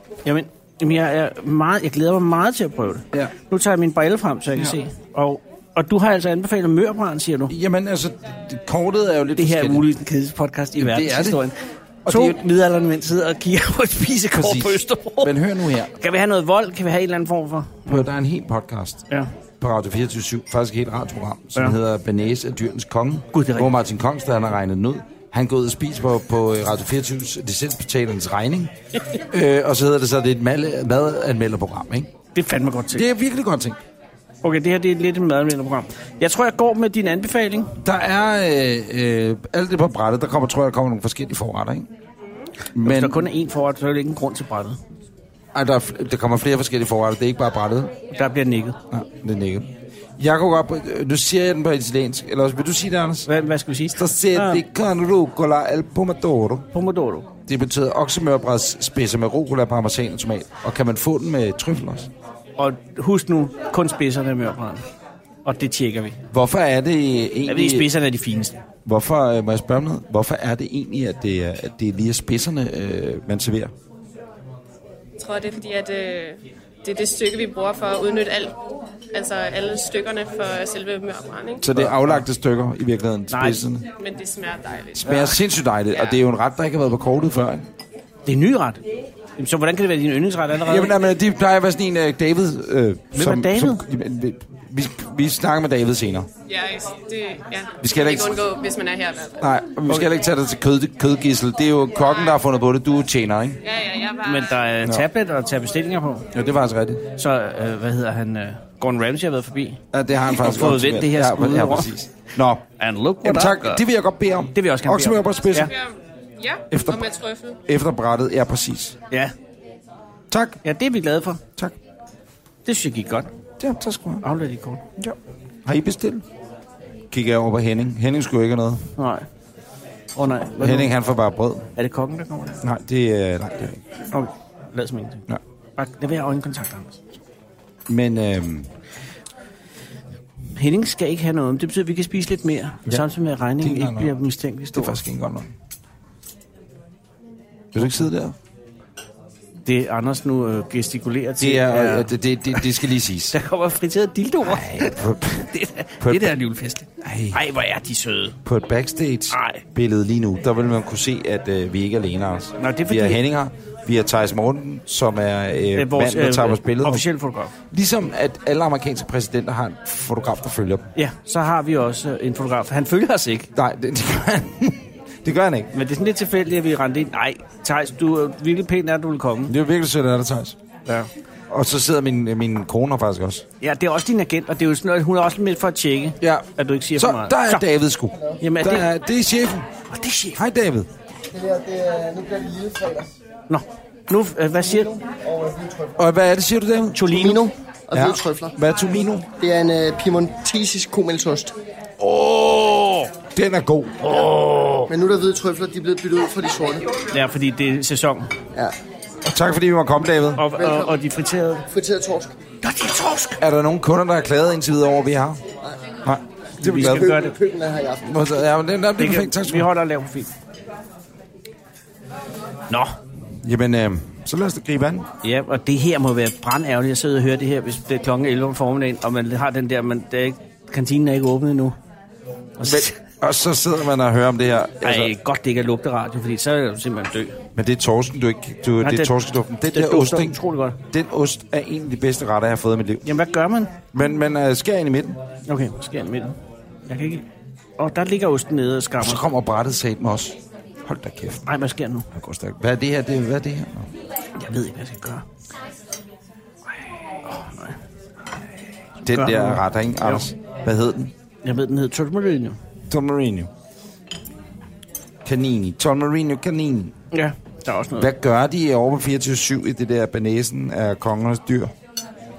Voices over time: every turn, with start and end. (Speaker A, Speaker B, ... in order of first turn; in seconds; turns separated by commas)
Speaker A: 0.2-7.5, Speaker B: 7.5-9.9, Speaker A: 9.4-15.3, Speaker B: 10.8-11.4, Speaker B: 12.1-12.4, Speaker B: 14.3-15.9, Speaker A: 15.9-18.1, Speaker B: 17.9-19.0, Speaker B: 19.6-28.7, Speaker A: 23.3-23.7, Speaker B: 29.3-32.1, Speaker A: 32.3-33.0, Speaker B: 32.9-33.8, Speaker A: 34.4-37.8, Speaker B: 37.8-41.9, Speaker B: 42.7-43.3, Speaker A: 42.8-44.8, Speaker B: 45.5-47.9, Speaker A: 48.1-48.8, Speaker B: 48.9-53.3, Speaker A: 53.2-54.6, Speaker B: 53.9-56.7, Speaker A: 56.7-57.3, Speaker B: 57.5-62.1, Speaker A: 62.6-64.8, Speaker A: 65.4-66.2, Speaker B: 66.3-67.9, Speaker A: 67.5-68.6, Speaker B: 68.8-73.7, Speaker C: 75.2-78.5, Speaker C: 79.1-81.7, Speaker B: 81.6-83.8, Speaker A: 81.7-82.2, Speaker A: 83.3-83.6, Speaker C: 84.0-85.4, Speaker B: 85.0-87.7, Speaker A: 88.2-88.8, Speaker A: 89.4-90.9, Speaker B: 90.6-96.3, Speaker A: 93.1-93.8, Speaker C: 96.5-99.4, Speaker B: 97.8-98.5, Speaker B: 99.4-103.6, Speaker C: 103.6-104.7, Speaker A: 104.2-106.3, Speaker B: 106.3-107.0, Speaker A: 107.1-112.0, Speaker B: 109.9-112.6, Speaker A: 112.8-113.8, Speaker B: 113.2-115.7, Speaker A: 114.5-115.7, Speaker C: 115.6-117.6, Speaker B: 116.7-117.1, Speaker B: 117.7-119.0, Speaker B: 120.3-120.6, Speaker A: 120.6-121.4, Speaker A: 122.6-123.3, Speaker B: 123.6-124.2, Speaker A: 124.2-124.8, Speaker B: 125.0-126.2, Speaker B: 127.1-128.9, Speaker A: 129.0-129.2, Speaker A: 130.2-130.9, Speaker B: 130.5-131.7, Speaker A: 131.8-132.6, Speaker B: 132.6-133.8, Speaker A: 134.1-135.2, Speaker A: 135.8-137.0, Speaker B: 137.9-138.7, Speaker A: 140.6-145.0, Speaker B: 143.6-144.1, Speaker B: 144.7-145.5, Speaker B: 147.7-148.3, Speaker A: 149.7-152.7, Speaker B: 151.4-153.3, Speaker A: 153.3-158.4, Speaker B: 154.4-156.3, Speaker B: 157.0-157.4, Speaker B: 158.4-167.1, Speaker A: 159.3-159.6, Speaker A: 162.6-163.2, Speaker A: 165.7-167.5, Speaker B: 167.7-170.9, Speaker A: 170.9-173.5, Speaker B: 173.5-175.7, Speaker A: 175.7-179.5, Speaker B: 179.5-180.6, Speaker B: 181.5-183.4, Speaker A: 183.6-187.6, Speaker B: 186.2-189.7, Speaker A: 188.4-188.9, Speaker A: 189.9-190.4, Speaker B: 190.3-190.9, Speaker D: 191.3-193.1, Speaker A: 193.5-194.9, Speaker D: 194.6-196.0, Speaker B: 196.0-197.3, Speaker A: 196.9-197.5, Speaker D: 197.0-198.5, Speaker B: 197.9-199.3, Speaker D: 199.4-201.5, Speaker B: 202.0-202.4, Speaker A: 202.1-203.1, Speaker B: 203.3-204.1, Speaker A: 204.0-204.9, Speaker D: 204.9-206.9, Speaker A: 207.1-208.3, Speaker B: 209.2-210.5, Speaker A: 210.3-211.7, Speaker D: 210.5-211.0, Speaker D: 211.7-212.3, Speaker A: 212.6-213.4, Speaker B: 213.4-215.4, Speaker B: 216.0-217.2, Speaker A: 216.6-217.3, Speaker D: 216.7-218.2, Speaker B: 218.0-219.7, Speaker A: 219.0-220.3, Speaker A: 222.7-222.9, Speaker B: 223.4-225.1, Speaker A: 225.2-231.8, Speaker A: 232.6-233.0, Speaker B: 232.6-235.1, Speaker A: 234.8-237.4, Speaker B: 237.5-243.0, Speaker A: 238.8-239.1, Speaker A: 239.7-240.8, Speaker A: 243.0-243.7, Speaker B: 243.9-245.2, Speaker A: 245.5-246.3, Speaker A: 246.9-247.2, Speaker A: 247.8-249.2, Speaker B: 249.0-251.4, Speaker A: 251.4-252.1, Speaker B: 252.1-253.9, Speaker A: 254.4-255.2, Speaker A: 257.2-257.8, Speaker A: 259.0-260.2, Speaker B: 259.0-261.1, Speaker A: 261.4-262.6, Speaker B: 262.9-263.5, Speaker B: 265.2-266.9, Speaker A: 267.1-268.1, Speaker B: 268.0-271.7